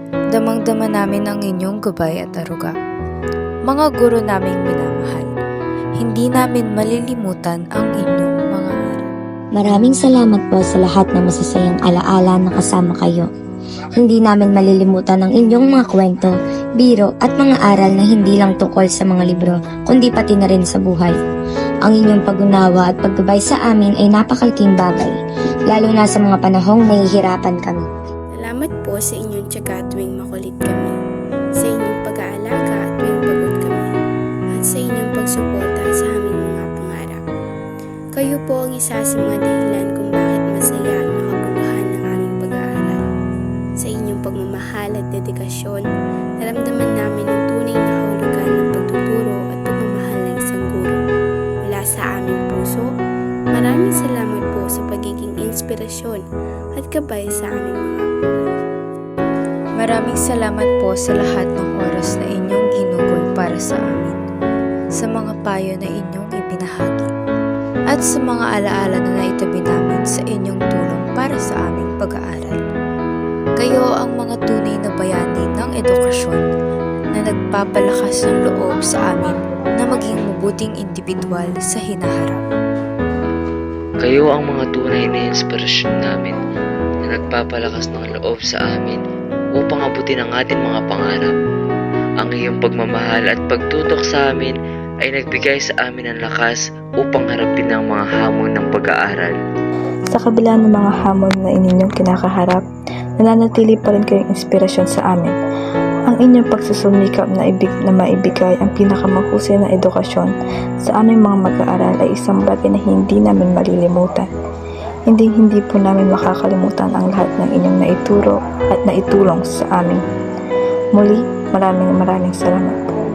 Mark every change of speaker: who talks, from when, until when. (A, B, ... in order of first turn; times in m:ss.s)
0:00.3-0:02.7 A
0:03.7-0:05.3 A
0:06.0-0:09.1 A
0:09.5-0:13.3 B
0:14.0-0:21.2 B
0:21.8-0:25.2 B
0:25.7-0:27.9 B
0:28.4-0:30.9 C
0:31.6-0:33.9 C
0:34.5-0:37.2 C
0:38.1-0:43.0 C
0:43.8-0:45.8 C
0:46.4-0:51.0 C
0:51.6-0:52.8 C
0:53.5-0:56.2 C
0:56.7-0:58.0 C
0:59.8-1:04.2 A
1:05.0-1:07.1 A
1:07.9-1:12.6 A
1:13.6-1:16.4 A
1:17.1-1:22.4 A
1:24.0-1:26.4 D
1:27.0-1:29.0 D
1:29.6-1:31.3 D
1:32.2-1:39.4 D
1:40.1-1:42.6 E
1:43.2-1:45.3 E
1:46.1-1:50.3 E
1:50.8-1:54.2 E
1:55.1-2:00.0 E
2:01.0-2:02.8 E